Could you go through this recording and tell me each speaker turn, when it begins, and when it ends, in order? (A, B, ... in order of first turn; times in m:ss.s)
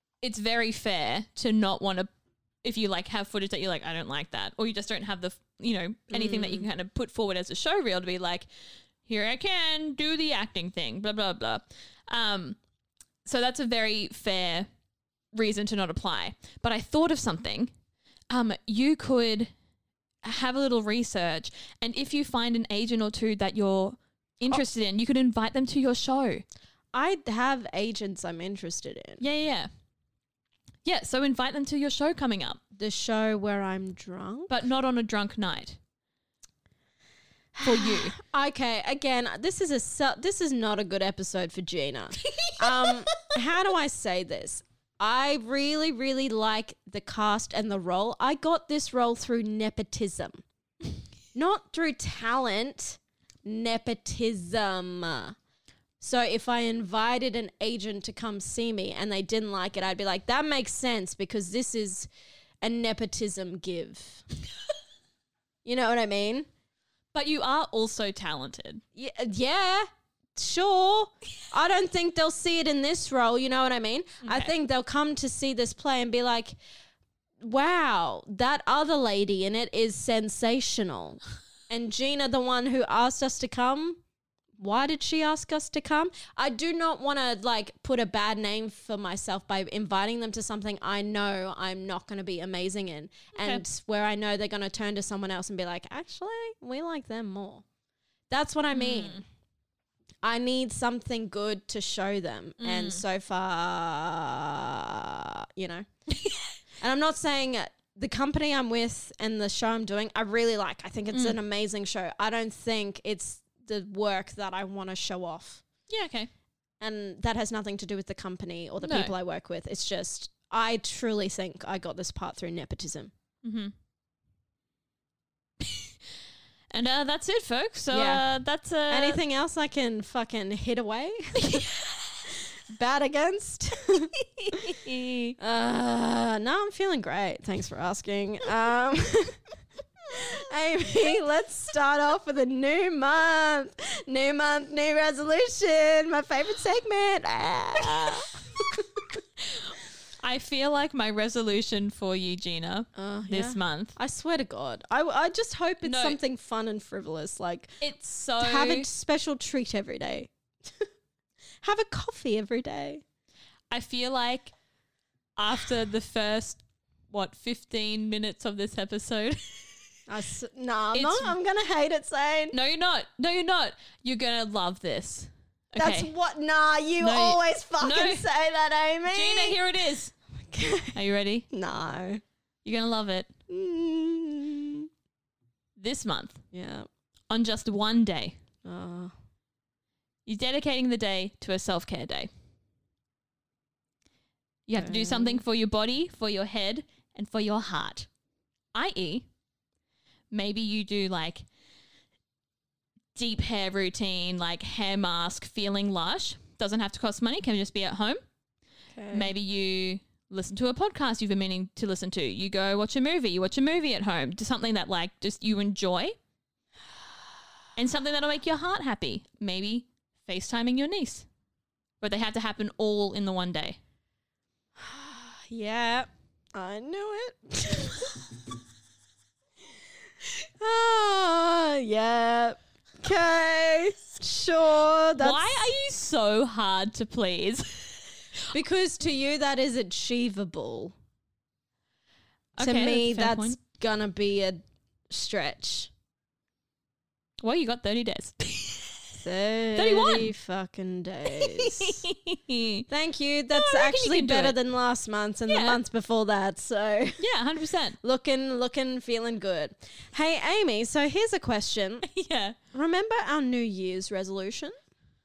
0:00.2-0:02.1 A
0:02.6-0:08.5 A
0:06.1-0:06.7 B
0:09.0-0:12.6 A
0:13.2-0:14.7 A
0:15.3-0:17.7 A
0:18.3-0:19.5 A
0:20.2-0:26.4 A
0:26.9-0:29.2 B
0:29.2-0:29.7 A
0:30.8-0:32.6 A
0:32.8-0:34.6 B
0:34.5-0:35.8 A
0:37.6-0:50.4 B
0:37.6-0:38.2 A
0:42.3-0:42.9 A
0:51.3-0:55.4 B
0:56.0-1:02.1 B
1:02.6-1:04.2 B
1:05.6-1:06.5 B
1:07.1-1:08.8 A
1:09.0-1:16.6 B
1:14.2-1:14.5 A
1:17.4-1:24.0 B
1:24.6-1:37.6 B
1:33.3-1:33.6 A
1:38.3-1:39.2 B
1:38.7-1:39.2 A
1:40.2-1:45.8 B
1:42.6-1:43.0 A
1:46.2-1:46.5 A
1:46.8-1:55.6 B
1:51.1-1:51.4 A
1:55.9-1:56.3 A
1:56.8-2:03.1 B
1:58.8-1:59.1 A
2:03.4-2:03.7 A
2:05.6-2:05.9 A
2:06.7-2:09.2 A
2:07.9-2:08.2 B
2:08.9-2:11.6 B
2:11.4-2:12.0 A
2:12.7-2:14.6 B
2:14.4-2:15.4 A
2:15.4-2:19.4 B
2:20.1-2:29.0 B
2:27.8-2:28.2 A
2:30.2-2:34.0 A
2:32.9-2:37.8 B
2:35.8-2:36.2 A
2:37.8-2:38.9 A
2:38.4-2:40.8 B
2:41.6-2:43.0 B
2:43.7-2:44.5 A
2:45.4-2:49.6 A
2:50.1-2:52.5 B
2:50.9-2:51.3 A
2:52.5-2:56.1 A
2:55.8-2:59.6 B
2:57.0-2:58.2 A
2:59.1-3:00.1 A
3:00.5-3:01.0 B
3:00.9-3:01.5 A
3:01.5-3:02.2 B
3:02.6-3:03.3 A
3:03.5-3:04.9 B
3:05.8-3:06.4 A
3:06.5-3:06.9 B
3:07.3-3:08.4 A
3:08.6-3:09.1 B
3:10.2-3:12.3 A
3:14.7-3:18.1 A
3:14.8-3:15.4 B
3:18.7-3:19.2 A
3:20.3-3:21.4 A
3:23.1-3:28.2 A
3:28.9-3:29.3 B
3:29.1-3:36.2 A
3:37.8-3:41.2 A
3:42.0-3:43.8 A
3:44.8-3:48.2 B
3:50.2-3:55.6 B
3:55.2-3:58.0 A
3:58.5-4:00.9 B
4:02.6-4:03.6 A
4:02.6-4:05.9 B
4:07.4-4:09.0 A
4:09.2-4:12.0 B
4:09.8-4:10.3 A
4:11.4-4:12.8 A
4:12.9-4:17.2 B
4:13.5-4:14.6 A
4:15.5-4:15.8 A
4:17.2-4:18.0 A
4:18.0-4:22.0 B
4:22.0-4:22.6 A
4:22.7-4:24.8 B